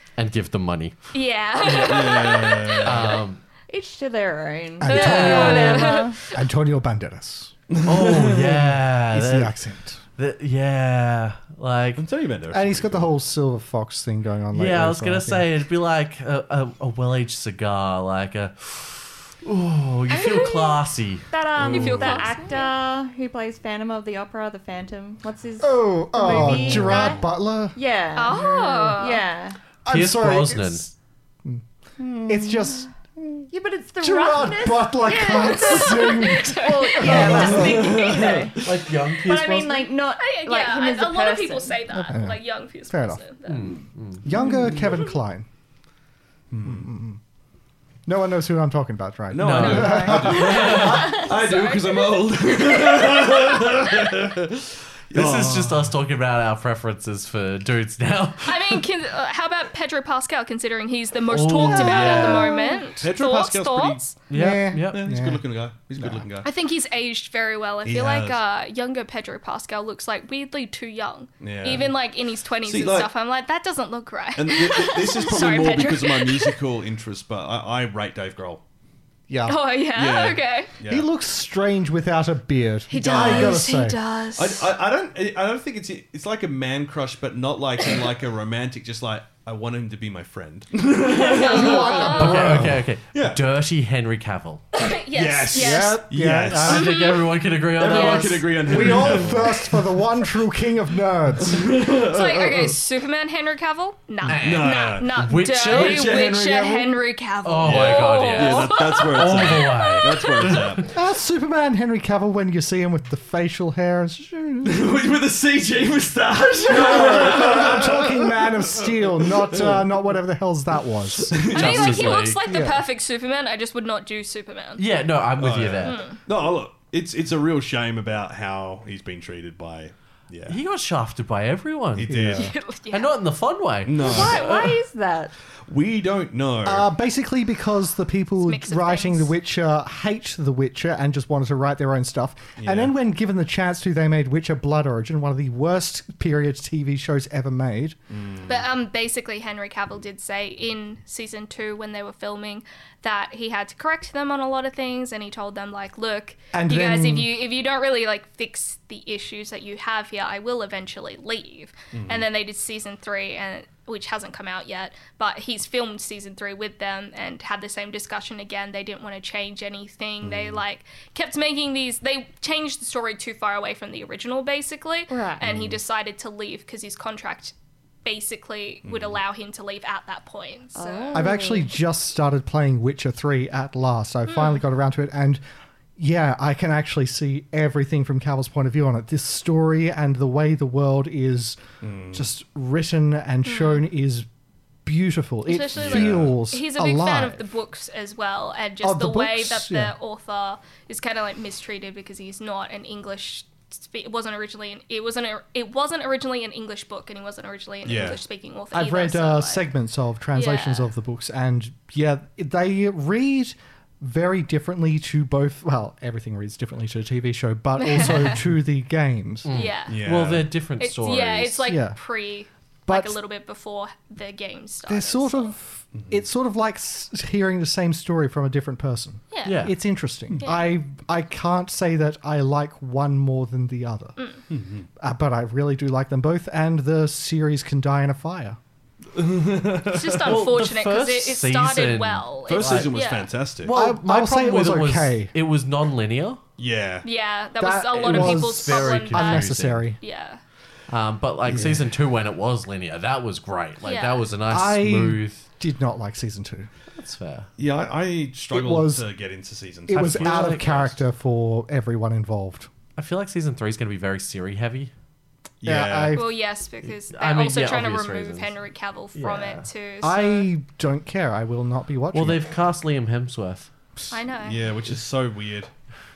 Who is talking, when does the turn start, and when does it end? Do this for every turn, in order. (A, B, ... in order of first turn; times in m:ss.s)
0:00.2-0:00.9 A
0:01.1-0:03.2 B
0:01.6-0:03.2 C
0:02.8-0:03.4 A
0:03.7-0:06.2 D
0:04.8-0:07.5 E
0:04.8-0:06.3 B
0:05.0-0:05.5 A
0:07.7-0:08.7 C
0:07.8-0:09.6 A
0:09.1-0:10.0 E
0:10.2-0:12.0 A
0:12.0-0:13.1 C
0:12.5-0:15.5 E
0:14.5-0:21.3 A
0:20.1-0:20.8 B
0:21.3-0:29.6 D
0:21.6-0:22.3 C
0:21.7-0:22.7 B
0:25.6-0:27.8 E
0:26.3-0:27.1 A
0:28.2-0:29.2 B
0:29.8-0:30.9 E
0:29.9-0:30.9 A
0:32.0-0:32.9 D
0:32.2-0:33.5 E
0:33.5-0:38.7 D
0:34.0-0:38.0 E
0:35.2-0:38.3 B
0:37.1-0:38.7 C
0:38.6-0:39.9 A
0:39.2-0:41.8 D
0:40.2-0:43.8 B
0:41.9-0:43.2 E
0:43.4-0:44.8 A
0:44.2-0:45.5 E
0:46.5-0:46.9 C
0:46.6-0:47.2 E
0:48.0-0:50.4 E
0:49.3-0:56.0 C
0:49.4-0:51.2 A
0:49.6-0:53.7 B
0:49.8-0:50.2 D
0:55.1-0:58.8 A
0:58.4-1:04.2 B
1:01.3-1:02.6 A
1:01.7-1:02.4 C
1:03.0-1:04.1 C
1:04.3-1:05.0 A
1:04.3-1:05.4 E
1:04.7-1:06.5 C
1:06.0-1:06.2 E
1:06.4-1:16.6 B
1:07.8-1:08.4 C
1:11.4-1:11.9 C
1:12.6-1:13.1 C
1:14.4-1:18.6 C
1:19.3-1:19.6 E
1:19.4-1:20.7 B
1:19.9-1:21.1 C
1:20.9-1:24.0 E
1:22.9-1:24.7 B
1:22.9-1:23.6 C
1:24.4-1:33.4 C
1:31.0-1:32.6 B
1:31.4-1:32.6 E
1:32.1-1:34.6 A
1:34.8-1:36.0 B
1:35.1-1:36.9 C
1:35.5-1:36.9 E
1:36.6-1:39.2 A
1:36.7-1:37.3 B
1:37.7-1:39.8 C
1:37.8-1:38.4 B
1:38.7-1:41.7 E
1:41.4-1:42.8 C
1:42.0-1:50.7 B
1:44.2-1:46.2 A
1:44.4-1:46.9 C
1:47.4-1:50.9 A
1:47.6-1:50.8 C
1:50.9-1:54.8 E
1:54.6-1:59.9 C
1:56.6-2:01.3 E
2:01.2-2:02.2 C
2:01.5-2:02.4 A
2:01.5-2:04.8 B
2:02.4-2:02.8 E
2:04.8-2:06.1 A
2:05.4-2:10.6 C
2:05.8-2:06.2 B
2:10.5-2:12.2 A
2:11.9-2:12.5 C
2:12.1-2:12.5 E
2:12.4-2:13.1 B
2:12.9-2:14.7 A
2:13.8-2:14.6 C
2:14.0-2:15.3 D
2:15.7-2:16.9 C
2:16.6-2:28.0 E
2:18.4-2:19.3 B
2:22.6-2:22.9 C
2:28.1-2:28.7 C
2:28.5-3:01.3 B
2:36.5-2:37.3 E
2:41.9-2:42.2 C
2:50.2-2:50.6 C
2:55.1-2:55.6 D
2:55.4-2:55.8 C
2:58.8-2:59.2 C
3:00.7-3:01.7 D
3:01.1-3:05.4 E
3:04.3-3:04.6 B
3:06.0-3:11.6 E
3:11.8-3:12.3 C
3:12.1-3:14.3 E
3:13.4-3:13.9 B
3:14.8-3:17.5 E
3:15.4-3:29.7 B
3:15.7-3:16.4 C
3:18.8-3:19.9 E
3:27.8-3:28.2 C
3:28.7-3:39.6 E
3:30.3-3:30.9 B
3:37.8-3:38.4 B
3:39.4-3:41.7 A
3:39.5-3:40.0 B
3:39.9-3:40.5 C
3:40.8-3:45.5 B
3:41.7-3:42.0 E
3:42.9-3:43.2 E
3:44.9-3:54.2 E
3:45.9-3:46.2 C
3:49.3-3:49.7 B
3:49.4-3:49.8 A
3:50.4-3:50.8 B
3:54.5-3:54.9 C
3:55.0-3:58.6 E
3:59.1-4:00.4 C
3:59.9-4:03.3 B
4:00.2-4:02.9 A
4:02.4-4:03.7 C
4:03.6-4:06.4 A
4:03.7-4:05.3 E
4:06.6-4:07.0 C
4:07.0-4:10.4 B
4:07.6-4:10.0 E
4:08.0-4:09.9 A
4:10.9-4:15.4 A
4:11.5-4:11.8 C
4:13.8-4:14.2 B
4:14.5-4:16.7 E
4:16.9-4:17.5 A
4:17.6-4:21.0 C
4:18.5-4:19.0 E
4:19.9-4:22.7 E
4:20.0-4:20.8 A
4:23.0-4:24.9 A
4:25.6-4:26.2 C
4:25.6-4:26.4 E
4:26.1-4:30.5 B
4:26.8-4:28.5 A
4:29.1-4:29.6 A
4:30.0-4:32.4 E
4:32.1-4:33.7 A
4:34.1-4:34.6 B
4:34.4-4:35.7 C